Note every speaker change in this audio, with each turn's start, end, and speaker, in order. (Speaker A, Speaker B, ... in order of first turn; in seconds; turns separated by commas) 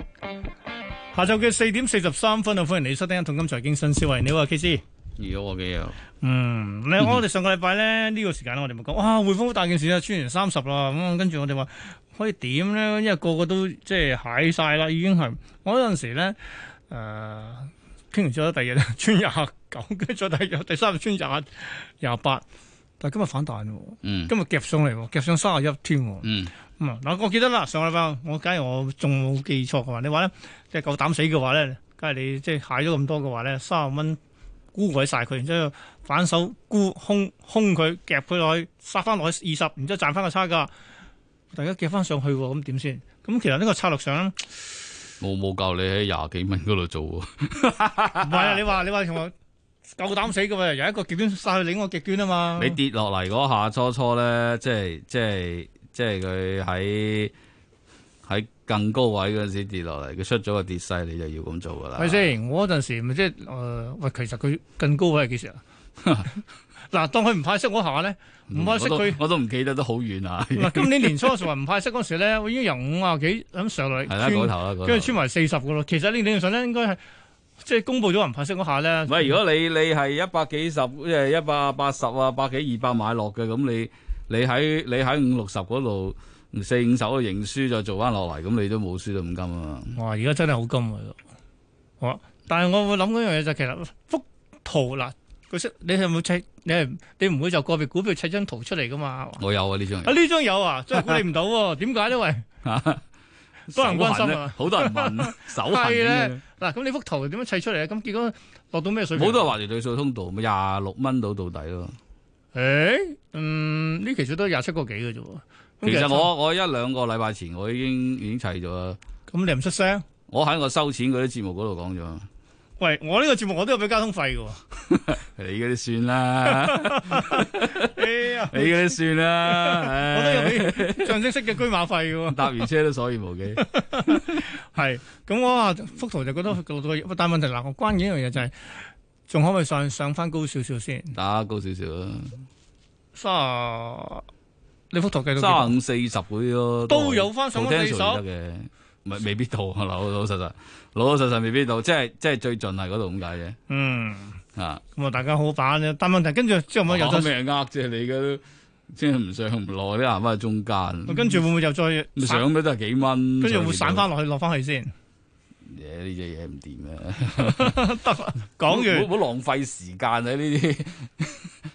Speaker A: 1.1-4.8, Speaker B: 5.2-6.0, Speaker A: 6.2-22.4, Speaker A: 23.0-34.2, Speaker B: 24.0-24.3, Speaker B: 26.2-26.5, Speaker A: 34.7-40.7, Speaker A: 41.5-44.5, Speaker B: 45.2-48.6, Speaker A: 48.2-49.3, Speaker A: 50.0-52.8, Speaker B: 52.6-57.3, Speaker B: 58.2-62.3, Speaker A: 62.0-65.6, Speaker A: 66.3-69.2, Speaker B: 68.5-71.4, Speaker A: 70.5-77.0, Speaker B: 74.1-75.2, Speaker A: 77.6-79.3, Speaker B: 79.1-90.0, Speaker A: 89.9-91.2, Speaker A: 92.0-99.4, Speaker B: 99.4-100.1, Speaker A: 100.0-102.5, Speaker B: 102.6-103.0, Speaker B: 103.7-106.4, Speaker A: 103.7-109.5, Speaker B: 109.2-112.0, Speaker A: 112.5-116.3, Speaker B: 115.8-119.0, Speaker A: 119.3-120.0, Speaker B: 120.3-122.3, Speaker A: 122.8-124.6, Speaker B: 125.0-131.2, Speaker A: 126.5-132.6, Speaker B: 132.3-134.4, Speaker A: 133.6-141.1, Speaker B: 141.1-142.4, Speaker A: 143.1-144.2, Speaker A: 144.9-145.8, Speaker B: 145.3-153.6, Speaker A: 146.9-148.2, Speaker A: 153.7-154.4, Speaker B: 154.6-154.8, Speaker A: 154.9-157.3, Speaker B: 156.9-161.4, Speaker A: 161.1-162.5, Speaker B: 162.2-164.1, Speaker A: 163.4-164.9, Speaker B: 165.6-167.8, Speaker A: 167.4-169.1, Speaker B: 168.7-171.5